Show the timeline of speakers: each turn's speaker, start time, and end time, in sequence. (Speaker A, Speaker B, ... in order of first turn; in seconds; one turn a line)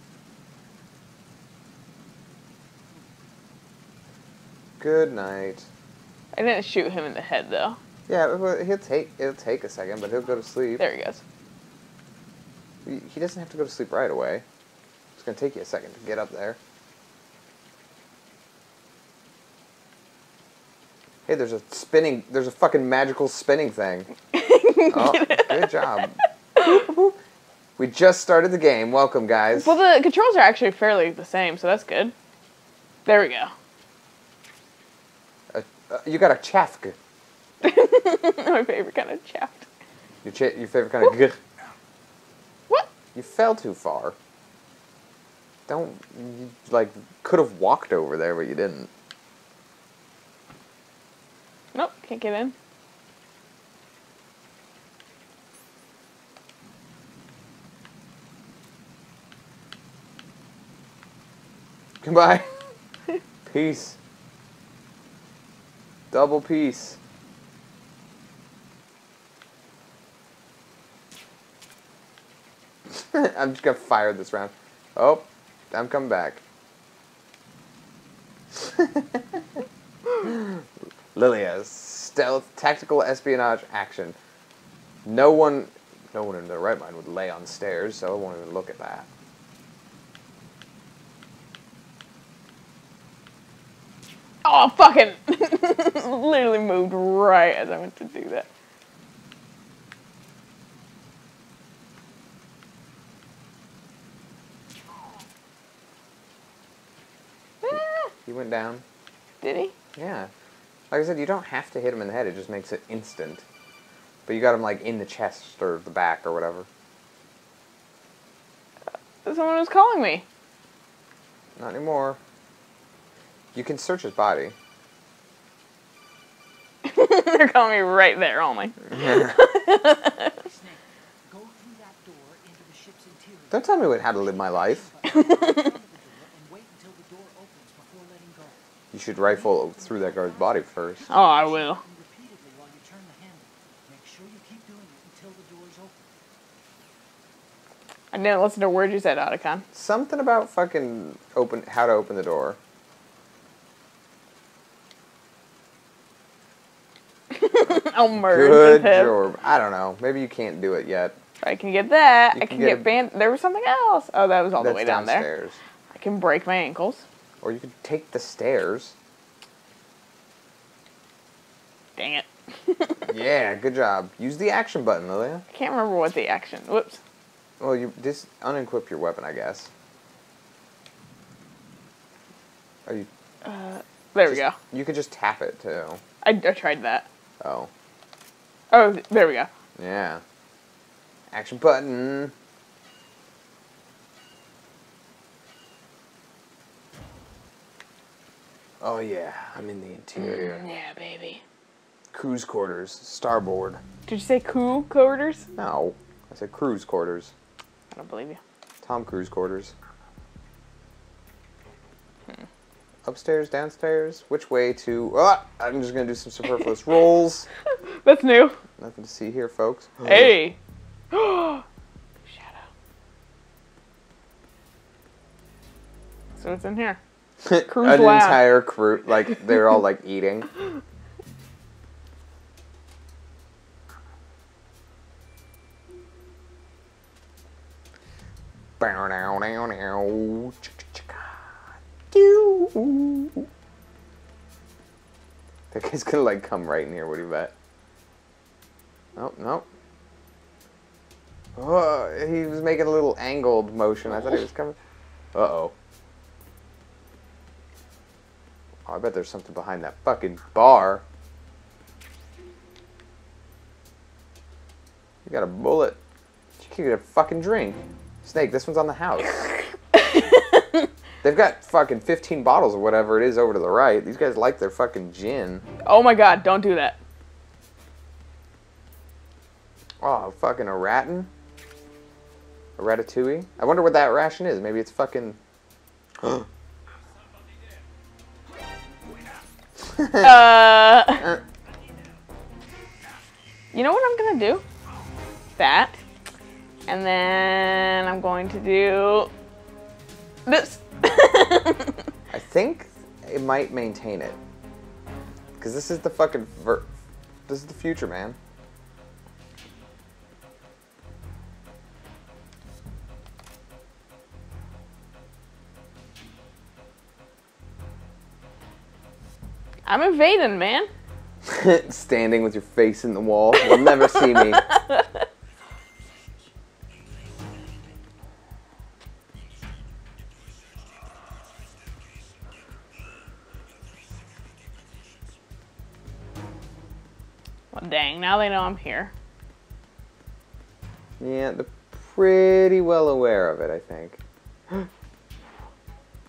Speaker A: 4.8-5.7
Speaker B: 6.3-7.8
Speaker A: 8.1-10.8
Speaker B: 10.8-11.2
Speaker A: 12.8-14.4
Speaker A: 15.2-16.6
Speaker A: 21.2-24.1
Speaker B: 24.3-25.8
Speaker A: 24.9-27.2
Speaker A: 27.8-29.8
Speaker B: 29.6-32.1
Speaker B: 33.1-33.5
Speaker A: 35.5-37.0
Speaker B: 37.6-39.7
Speaker A: 40.2-41.4
Speaker A: 43.1-44.1
Speaker A: 45.7-48.9
Speaker B: 51.7-52.5
Speaker A: 62.0-62.5
Speaker A: 63.5-64.0
Speaker A: 66.1-67.0
Speaker A: 72.9-76.4
Speaker A: 78.5-79.4
Speaker A: 80.2-84.2
Speaker A: 85.0-89.1
Speaker B: 94.4-98.5
Speaker B: 107.6-108.1
Speaker A: 108.2-108.8
Speaker B: 109.4-109.7
Speaker A: 110.0-110.3
Speaker A: 110.9-113.4
Speaker A: 114.2-116.7
Speaker B: 119.2-120.2
Speaker A: 121.6-122.2
Speaker A: 123.5-124.5
Speaker B: 126.8-130.3
Speaker A: 129.0-129.3
Speaker C: 130.4-146.1
Speaker A: 133.5-134.9
Speaker B: 135.1-135.7
Speaker A: 138.9-141.1
Speaker B: 141.1-141.8
Speaker B: 148.1-149.6
Speaker A: 149.7-152.6
Speaker B: 157.3-159.2
Speaker A: 158.1-161.2
Speaker B: 161.4-165.3
Speaker A: 162.3-162.9
Speaker A: 164.6-165.6
Speaker B: 165.9-167.0
Speaker A: 167.4-168.9
Speaker B: 172.0-173.1
Speaker A: 173.1-175.4
Speaker B: 175.5-177.0
Speaker A: 177.6-179.7
Speaker B: 183.4-184.6
Speaker A: 184.3-186.0
Speaker B: 186.2-187.1
Speaker A: 187.4-187.7
Speaker B: 188.7-189.5
Speaker A: 189.8-190.2
Speaker A: 191.3-192.3
Speaker A: 198.8-200.6
Speaker B: 200.2-201.4
Speaker A: 202.1-203.8
Speaker B: 204.1-205.5
Speaker A: 205.6-207.3
Speaker B: 207.9-208.4
Speaker A: 208.8-209.7
Speaker A: 213.1-217.5
Speaker B: 218.0-218.6
Speaker A: 218.8-220.4
Speaker B: 220.0-220.6
Speaker B: 221.1-221.6
Speaker B: 222.3-222.6
Speaker B: 226.4-227.0
Speaker A: 227.4-230.5
Speaker B: 227.6-228.6
Speaker A: 238.8-243.5
Speaker A: 245.7-247.5
Speaker A: 249.2-249.7
Speaker A: 251.6-254.8
Speaker A: 255.3-255.7
Speaker A: 258.9-261.0
Speaker A: 265.2-266.0
Speaker A: 266.6-269.4
Speaker B: 269.9-270.8
Speaker A: 271.2-275.6
Speaker B: 275.8-277.0
Speaker A: 280.0-281.3
Speaker A: 282.8-285.4
Speaker A: 286.2-286.5
Speaker A: 290.0-290.4
Speaker B: 290.1-291.3
Speaker B: 293.7-294.6
Speaker B: 295.6-296.0
Speaker B: 296.9-299.3
Speaker B: 300.4-302.0
Speaker A: 302.3-304.4
Speaker A: 305.6-306.9
Speaker A: 307.5-308.4
Speaker B: 319.9-320.9
Speaker A: 321.4-324.6
Speaker B: 323.8-325.2
Speaker B: 337.7-339.1
Speaker A: 341.2-344.2